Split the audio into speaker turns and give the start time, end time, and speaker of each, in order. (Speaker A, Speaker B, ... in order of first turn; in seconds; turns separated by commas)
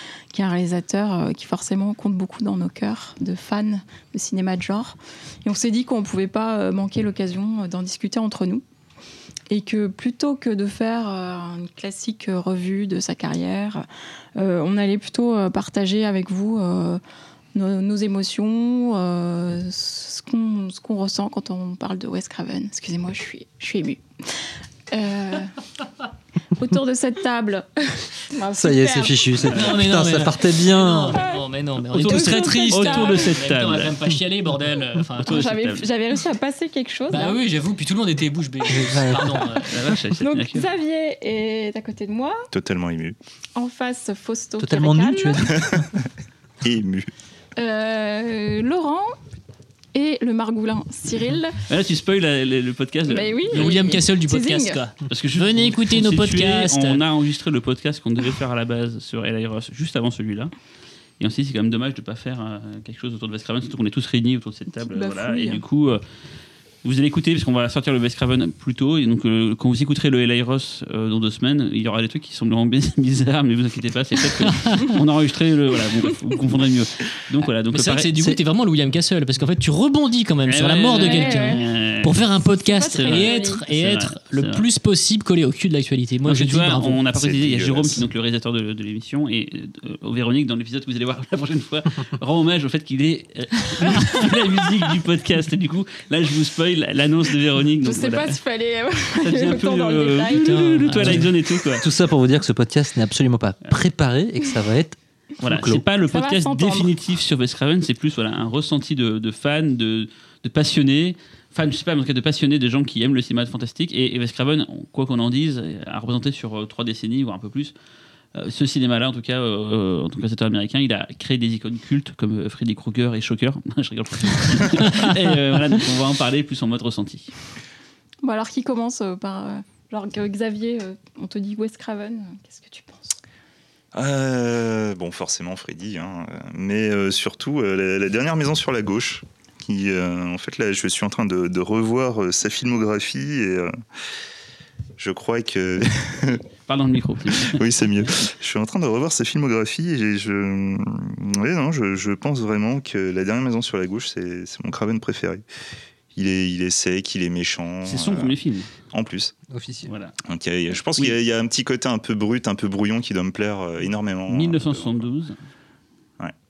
Speaker A: 0.3-8.6, Speaker A: 9.5-13.8, Speaker A: 14.4-17.0, Speaker A: 17.5-24.0, Speaker A: 24.9-25.6, Speaker A: 26.5-29.8, Speaker B: 28.5-31.2, Speaker C: 29.5-35.5, Speaker A: 30.8-31.4, Speaker D: 31.9-33.9, Speaker A: 32.0-33.4, Speaker A: 35.2-37.4, Speaker D: 35.3-35.8, Speaker C: 37.1-39.8, Speaker B: 38.7-39.2, Speaker A: 39.6-42.5, Speaker D: 39.7-40.7, Speaker E: 42.5-43.2, Speaker A: 43.5-45.7, Speaker B: 44.6-45.8, Speaker E: 45.6-46.0, Speaker E: 46.6-47.1, Speaker A: 47.6-49.1, Speaker A: 49.9-51.6, Speaker D: 51.7-53.7, Speaker A: 53.1-54.9, Speaker C: 53.5-57.0, Speaker D: 55.1-60.5, Speaker D: 61.2-66.0, Speaker A: 64.8-65.6, Speaker D: 66.8-78.3, Speaker C: 74.5-74.9, Speaker C: 77.7-87.0, Speaker D: 80.5-82.2, Speaker A: 81.0-81.7, Speaker A: 82.7-83.7, Speaker D: 82.9-84.7, Speaker D: 86.2-98.4, Speaker E: 87.2-88.0, Speaker A: 97.8-100.7, Speaker D: 99.2-101.9, Speaker C: 100.3-101.3, Speaker B: 101.0-105.8, Speaker D: 105.4-117.7, Speaker A: 106.1-106.9, Speaker D: 118.3-127.3, Speaker C: 124.8-125.2, Speaker A: 128.2-133.2, Speaker E: 133.9-143.8, Speaker E: 145.0-146.4, Speaker D: 146.7-147.8, Speaker E: 147.4-155.4, Speaker E: 156.1-158.3, Speaker D: 157.8-158.7, Speaker E: 158.9-159.3, Speaker B: 159.5-159.9, Speaker D: 159.9-160.2, Speaker E: 160.2-165.1, Speaker D: 164.3-165.4